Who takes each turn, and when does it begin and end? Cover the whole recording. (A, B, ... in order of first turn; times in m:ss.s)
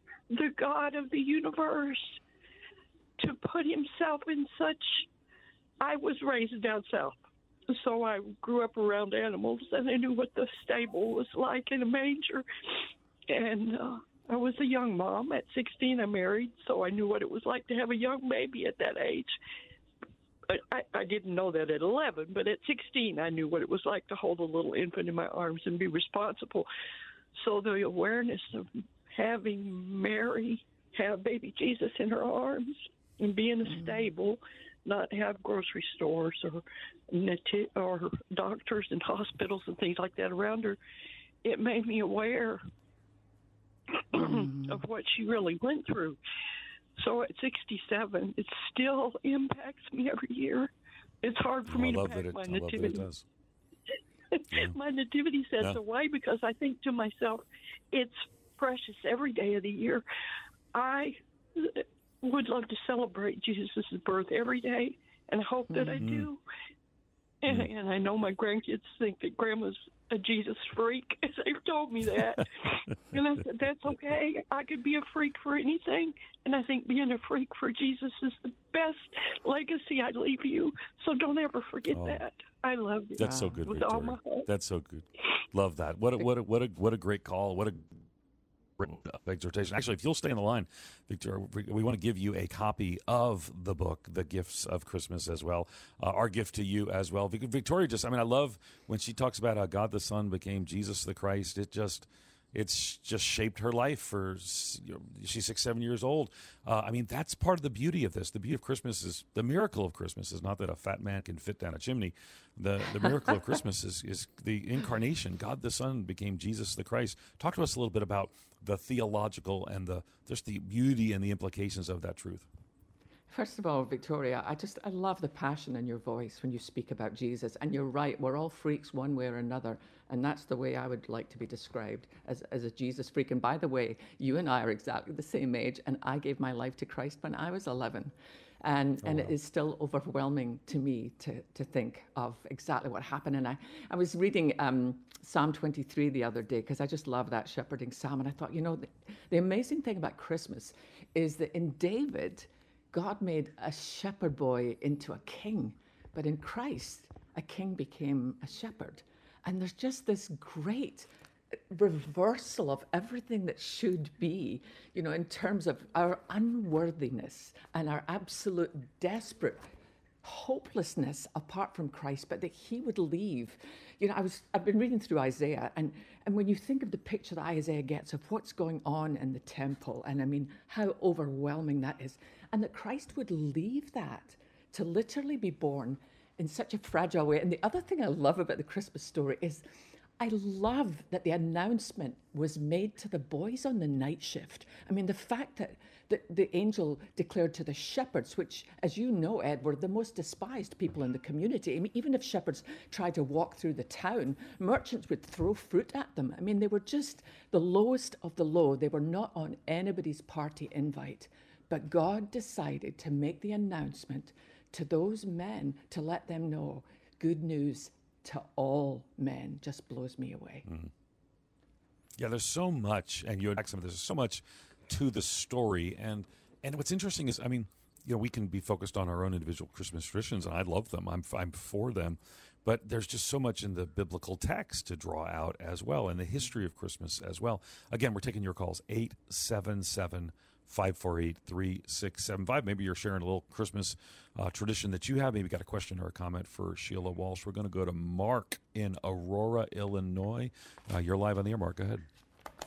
0:00.3-0:02.2 A
0:03.2-0:05.0 A
0:05.8-0:07.2 A
0:07.7-0:12.4 A
0:13.3-0:19.3 A
0:20.5-0:26.7 A
0:27.4-0:40.8 A
0:41.4-0:42.6 A
0:43.9-0:46.2 A
0:47.0-0:50.7 A
0:51.2-0:53.0 A
0:51.7-0:53.2 B
0:54.3-1:00.0 A
1:00.7-1:06.4 A
1:06.0-1:06.3 B
1:07.4-1:24.5 A
1:21.9-1:22.2 B
1:23.2-1:27.9 B
1:23.2-1:23.6 C
1:28.8-2:02.5 B
2:03.3-2:49.7 C
2:19.0-2:19.3 B
2:50.2-3:09.6 C
3:10.2-3:40.7 C
3:40.6-3:40.9 B
3:42.2-4:12.0 B